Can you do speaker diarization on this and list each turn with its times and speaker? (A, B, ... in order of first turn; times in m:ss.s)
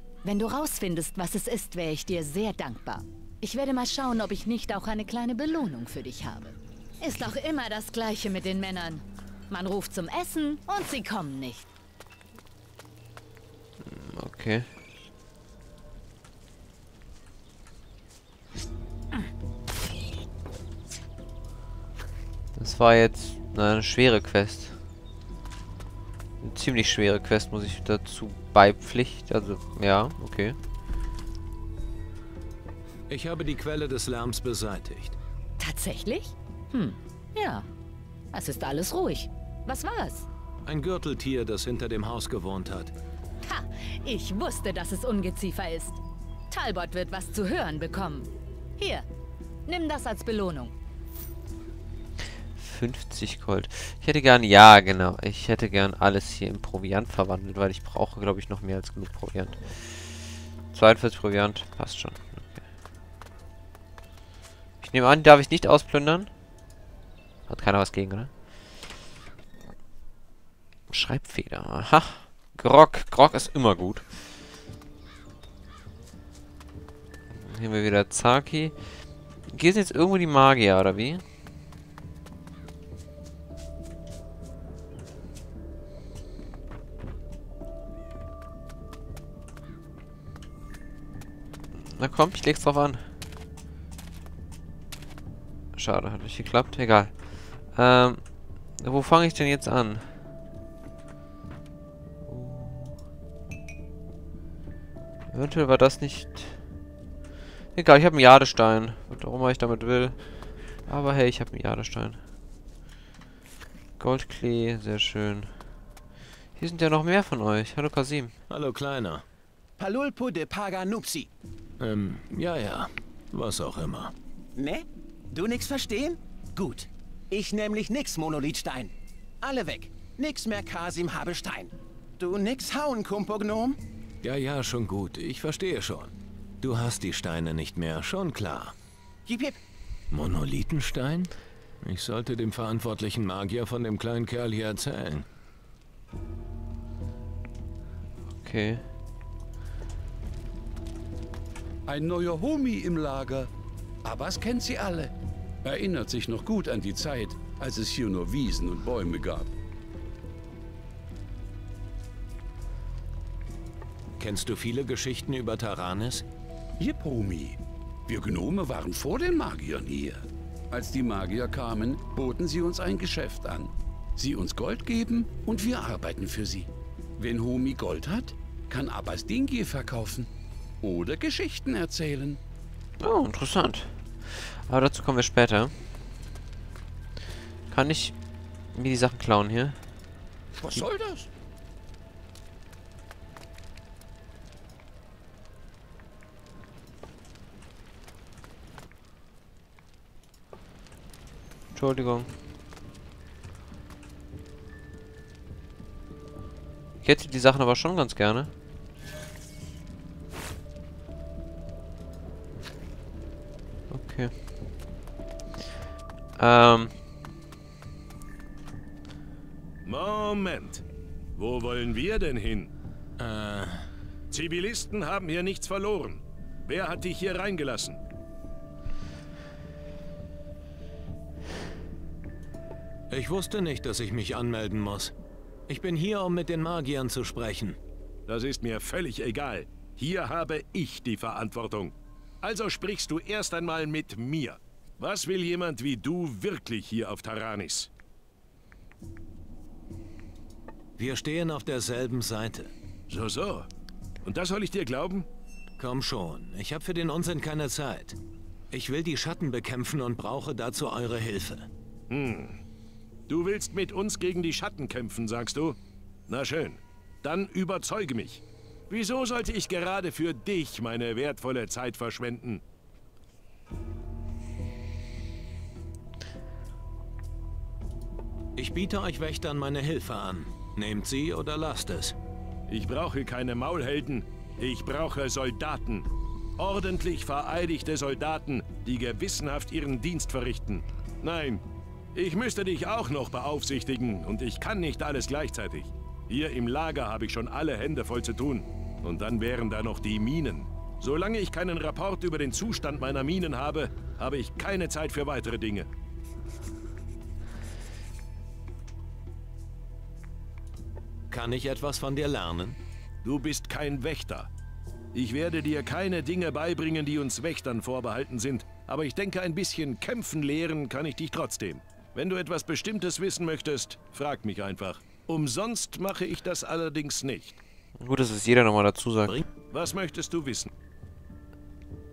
0:00.2-0:11.7 A
0:13.8-0:14.7 B
0:22.6-0:24.8 B
0:26.4-0:30.6 B
0:33.1-0:35.2 C
0:35.6-0:37.7 A
0:38.3-0:40.3 A
0:40.6-0:42.9 C
0:43.4-0:46.0 A
0:46.5-0:49.1 A
0:49.7-0:50.7 A
0:52.6-1:00.2 B
1:00.7-1:02.6 B
1:04.8-1:06.3 B
1:07.5-1:08.3 B
1:10.9-1:14.1 B
1:17.4-1:18.8 B
1:19.5-1:21.2 B
1:31.9-1:33.0 B
1:35.8-1:40.2 B
1:42.3-1:43.0 B
1:45.3-1:46.6 B
1:47.7-1:52.2 B
1:54.0-1:55.5 B
1:56.6-1:58.4 B
1:58.5-1:59.2 C
1:59.8-2:01.3 D
2:01.8-2:04.1 C
2:04.6-2:13.8 D
2:14.2-2:18.8 C
2:19.3-2:19.6 D
2:20.1-2:25.3 C
2:28.4-2:28.8 B
2:31.9-2:33.5 E
2:34.0-2:35.1 E
2:35.6-2:39.5 E
2:44.2-2:46.2 C
2:46.8-3:00.3 E
3:00.8-3:02.4 E
3:03.0-3:05.7 B
3:07.7-3:08.2 B
3:08.7-3:09.8 B
3:10.6-3:11.3 E
3:21.7-3:22.3 B
3:27.0-3:28.5 B
3:33.9-3:34.3 B
3:36.4-3:36.9 B
3:39.8-3:40.8 F
3:41.4-3:42.7 F
3:43.2-3:43.9 C
3:44.3-3:48.0 F
3:53.1-3:55.1 C
3:55.7-3:57.8 C
3:58.3-4:07.9 F
4:11.0-4:12.7 C
4:13.1-4:13.7 F
4:14.2-4:15.3 F
4:15.8-4:18.2 C
4:18.7-4:21.7 C
4:22.1-4:22.6 F
4:23.3-4:32.6 F
4:38.6-4:42.2 C
4:42.7-4:51.6 F
4:52.1-5:05.9 F
5:11.3-5:12.8 C
5:13.2-5:14.5 F
5:15.1-5:27.6 F
5:28.0-5:29.4 B
5:29.7-5:30.7 F